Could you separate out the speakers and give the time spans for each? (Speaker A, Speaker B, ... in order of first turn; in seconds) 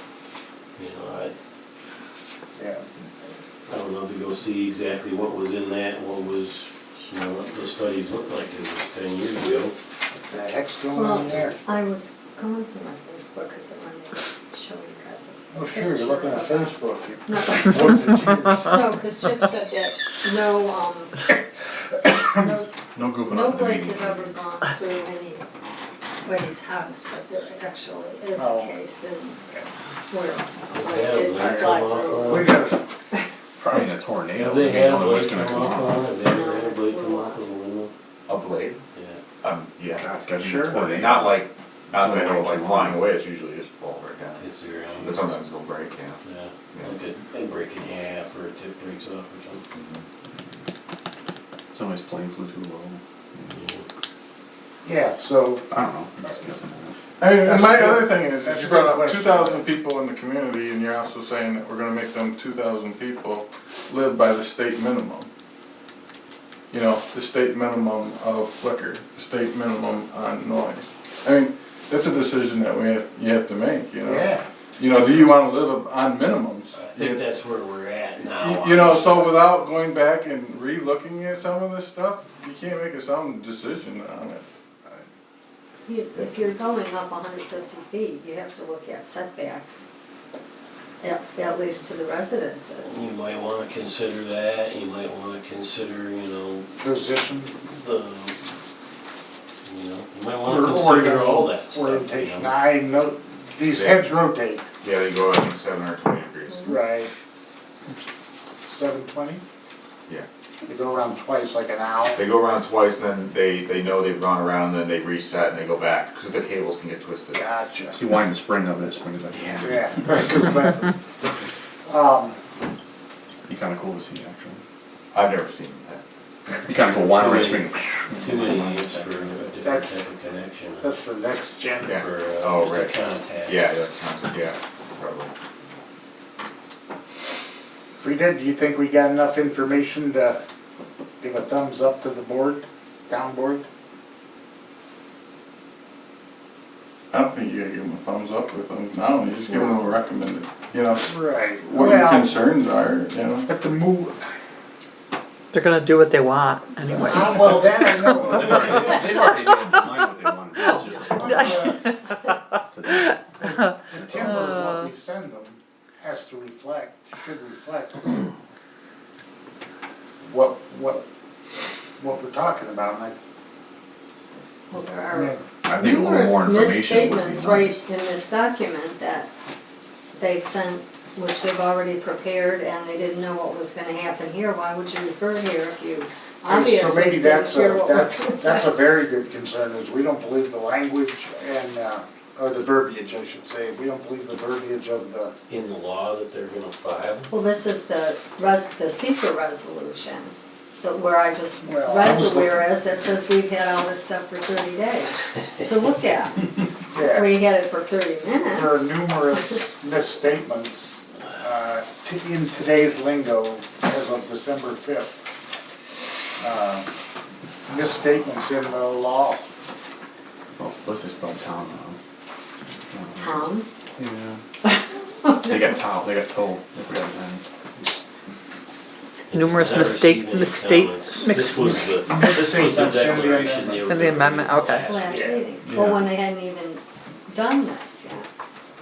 Speaker A: 0.8-1.3, 3.7-9.7, 30.7-32.5, 34.4-37.9, 38.9-39.2, 44.4-45.3, 46.2-49.6, 53.5-53.8, 76.7-79.6, 92.9-96.7, 97.7-98.4, 99.6-102.5, 127.0-130.9, 131.9-133.6, 195.5-197.3, 229.3-235.4
Speaker B: 2.5-2.9, 10.2-11.6, 15.5-18.8, 28.4-28.7, 31.4-32.8, 54.8-55.6, 57.4-59.7, 74.0-74.4, 96.8-97.5, 100.4-104.7, 106.7-107.1, 108.7-109.4, 110.6-112.2, 117.3-118.1, 119.6-122.4, 129.6-130.0, 130.8-132.0, 138.0-140.4, 141.2-143.7, 149.5-149.8, 151.0-152.4, 153.5-154.3, 156.8-159.2, 160.9-161.9, 163.4-168.3, 170.3-171.0, 172.0-173.1, 175.1-175.4, 186.5-195.3, 201.6-202.7, 206.9-207.4, 208.4-215.2, 216.4-216.9, 217.7-219.4, 227.8-228.0, 232.0-233.9, 235.1-235.4
Speaker C: 10.9-16.7, 17.3-18.1, 18.6-21.3, 22.2-22.7, 23.2-25.5, 26.2-29.4, 30.1-32.5, 36.2-37.5, 85.8-89.8, 91.0-93.0, 174.7-179.3, 180.2-188.7, 197.3-208.9, 223.2-223.7, 225.2-225.6, 234.8-238.2
Speaker D: 22.9-24.3, 33.6-36.1, 39.9-41.4, 42.0-43.0, 51.7-53.6, 55.7-56.9, 117.9-119.9, 123.5-124.6, 126.6-129.5, 158.1-161.6, 162.7-163.1, 175.6-177.8, 220.5-222.0, 222.9-224.4, 225.3-227.4, 235.6-236.1
Speaker E: 38.3-38.8, 39.4-44.4, 45.0-46.2, 46.7-47.0, 49.7-50.0, 103.7-104.1, 104.8-106.9, 112.1-117.4, 119.3-119.7, 125.1-126.0, 131.8-135.3
Speaker F: 57.2-65.3, 66.7-77.2, 78.3-85.0, 147.1-153.4
Speaker G: 155.5-159.3, 161.3-161.9, 164.2-164.8, 229.3-231.8, 233.8-234.9